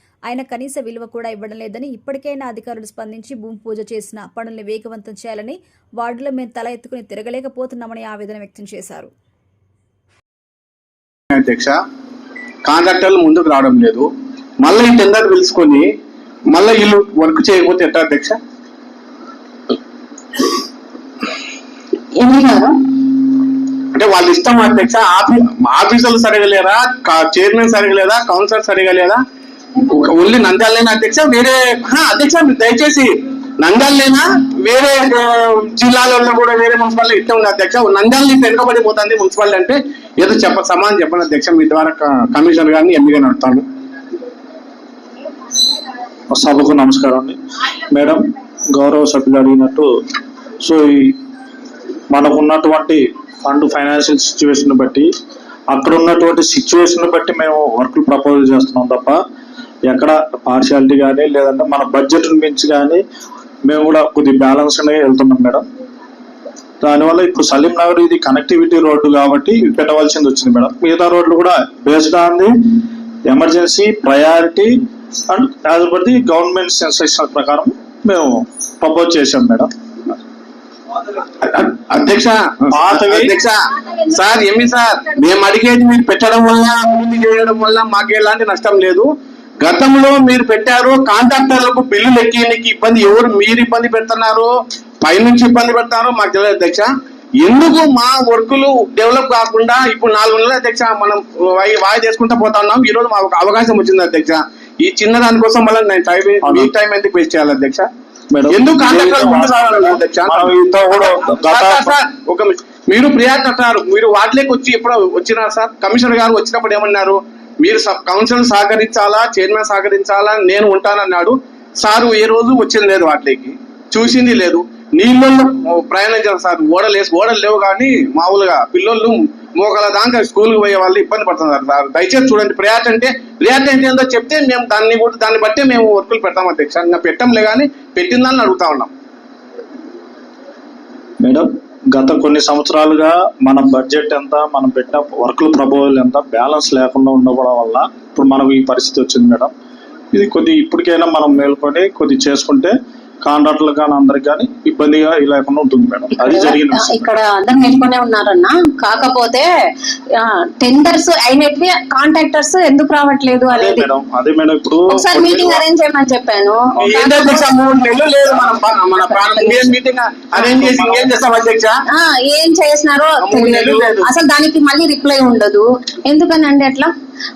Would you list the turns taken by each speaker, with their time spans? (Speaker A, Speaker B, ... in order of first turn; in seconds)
Speaker A: 0.3-9.1
Speaker B: 11.3-11.8, 12.6-14.1, 14.6-15.8, 16.5-18.4, 23.9-29.2, 29.9-33.1, 33.6-43.6, 81.4-89.1, 89.6-94.5, 95.0-96.9, 97.4-107.9, 108.5-138.9, 166.8-171.7, 173.2-174.1
Speaker C: 22.1-22.9, 156.2-159.5, 160.1-163.9, 164.9-167.5, 169.1-169.7, 171.9-176.9
Speaker D: 46.3-47.4, 47.9-49.9, 50.6-51.2, 52.1-55.1, 55.7-59.2, 59.9-63.0, 63.6-65.6, 66.8-72.5, 73.2-74.7, 75.3-79.7, 82.7-83.3, 106.4-106.7, 108.3-111.9, 141.2-149.5, 150.1-157.0, 163.5-165.6, 170.4-171.1